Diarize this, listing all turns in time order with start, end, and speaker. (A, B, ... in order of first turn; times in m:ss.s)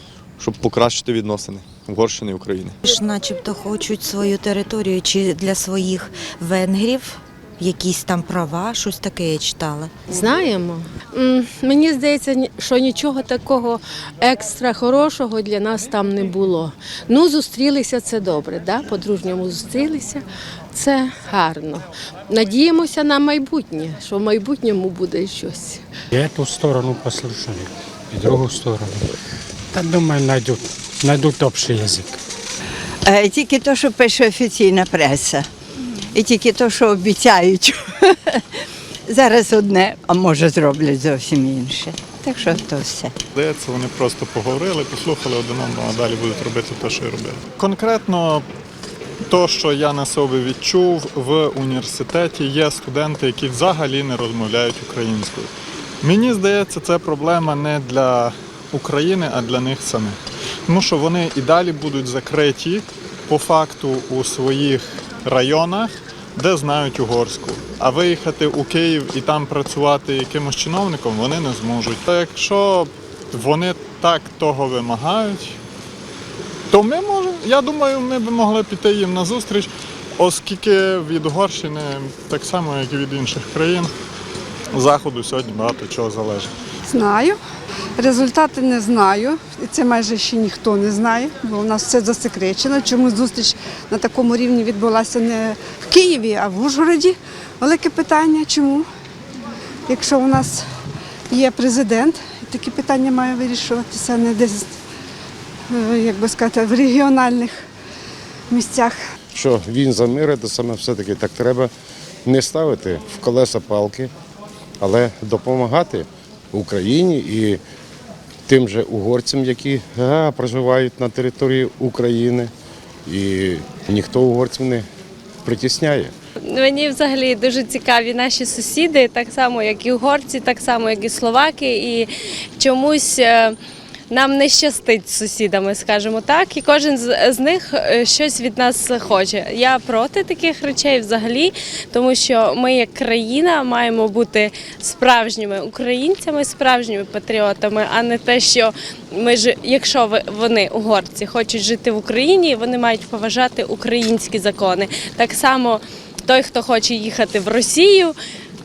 0:00.4-0:02.8 A
0:02.8-0:09.9 B
0:10.1-0:25.8 C
0:26.1-0:29.0 D
0:29.7-0:32.1 D
0:33.0-0:35.5 E
0:36.1-0:38.4 E
0:39.1-0:43.1 E
0:43.4-0:48.4 F
0:49.3-0:55.5 F
0:56.0-1:00.2 F
1:00.7-1:15.6 F
1:16.7-1:23.9 F
1:24.7-1:26.5 F
1:26.9-1:27.4 G
1:28.0-1:38.8 G
1:39.9-1:40.6 G
1:41.3-1:44.7 G
1:45.7-1:47.6 G
1:48.5-1:49.0 G
1:49.3-1:51.7 H
1:52.2-1:54.1 H
1:54.8-1:57.6 H
1:58.5-2:02.5 H
2:03.0-2:04.8 H
2:05.4-2:06.1 H
2:06.5-2:13.6 I
2:14.1-2:38.1 I